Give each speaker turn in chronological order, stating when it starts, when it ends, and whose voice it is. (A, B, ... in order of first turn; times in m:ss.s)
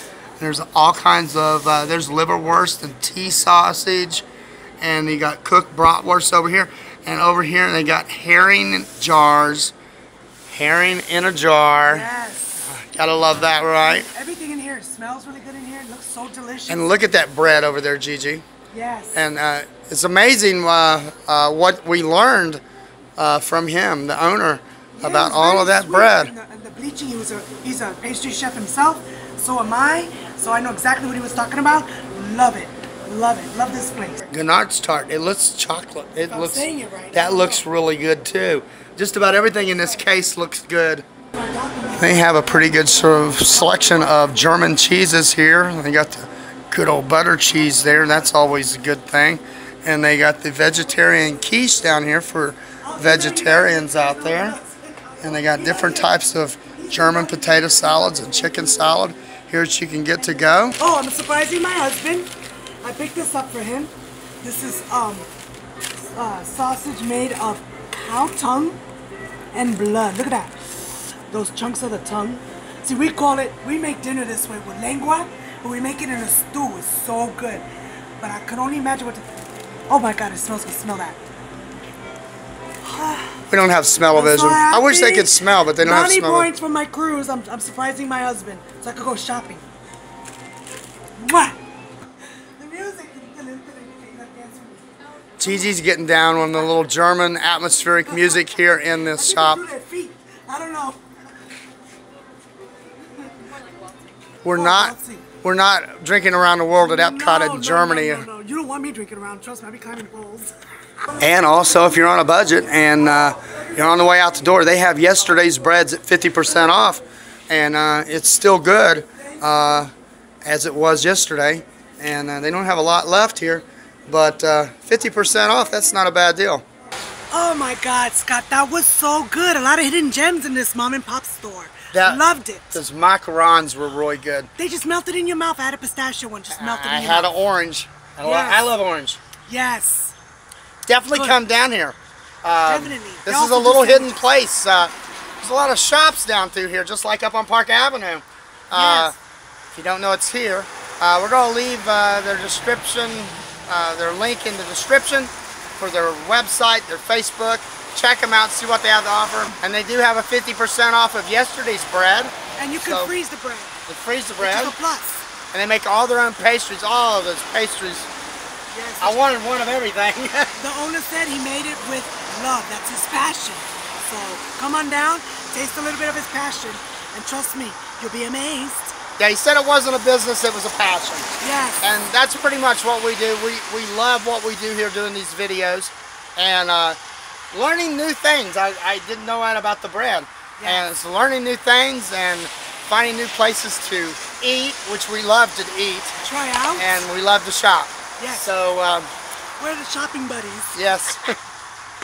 0:00.4-0:04.2 A
0:04.8-0:09.7 A
0:10.5-0:12.1 A
0:11.8-0:12.7 B
0:12.6-0:14.1 A
0:13.8-0:16.9 B
0:16.7-0:18.4 A
0:18.7-0:19.2 B
0:19.1-0:22.6 A
0:23.2-0:26.3 A
0:25.0-0:34.3 B
0:34.3-0:41.0 A
0:36.3-0:37.6 B
0:41.4-0:42.1 B
0:41.9-0:54.6 A
0:52.8-0:56.1 B
0:55.2-1:00.8 A
0:56.8-0:57.6 B
1:00.8-1:02.3 B
1:02.8-1:05.3 B
1:06.1-1:08.8 B
1:09.5-1:17.6 B
1:18.2-1:19.3 B
1:19.9-1:21.2 B
1:22.8-1:23.4 B
1:23.5-1:26.5 A
1:24.1-1:29.6 B
1:31.2-1:31.6 B
1:32.6-1:35.5 B
1:35.4-1:39.6 A
1:38.1-1:38.5 B
1:39.1-1:41.0 B
1:44.4-1:48.3 A
1:44.5-1:45.3 B
1:46.7-1:50.5 B
1:51.2-1:59.9 A
2:00.4-2:06.6 A
2:07.3-2:12.8 B
2:11.9-2:12.2 A
2:12.7-2:14.5 A
2:14.6-2:17.3 B
2:16.5-2:19.2 A
2:18.2-2:18.7 B
2:19.5-2:20.1 B
2:20.8-2:29.1 A
2:21.1-2:21.4 B
2:22.6-2:24.2 B
2:28.7-2:29.1 B
2:29.7-2:43.1 A
2:42.6-2:43.8 B
2:43.9-2:44.7 A
2:44.4-2:45.2 B
2:45.5-2:48.1 A
2:48.7-2:49.2 B
2:49.0-2:50.5 A
2:50.6-2:59.0 B
2:59.2-3:07.0 A
3:01.4-3:01.9 B
3:07.5-3:16.2 A
3:10.6-3:10.9 B
3:16.2-3:17.0 B
3:16.8-3:19.1 A
3:18.2-3:18.5 B
3:19.6-3:20.7 B
3:20.7-3:21.3 A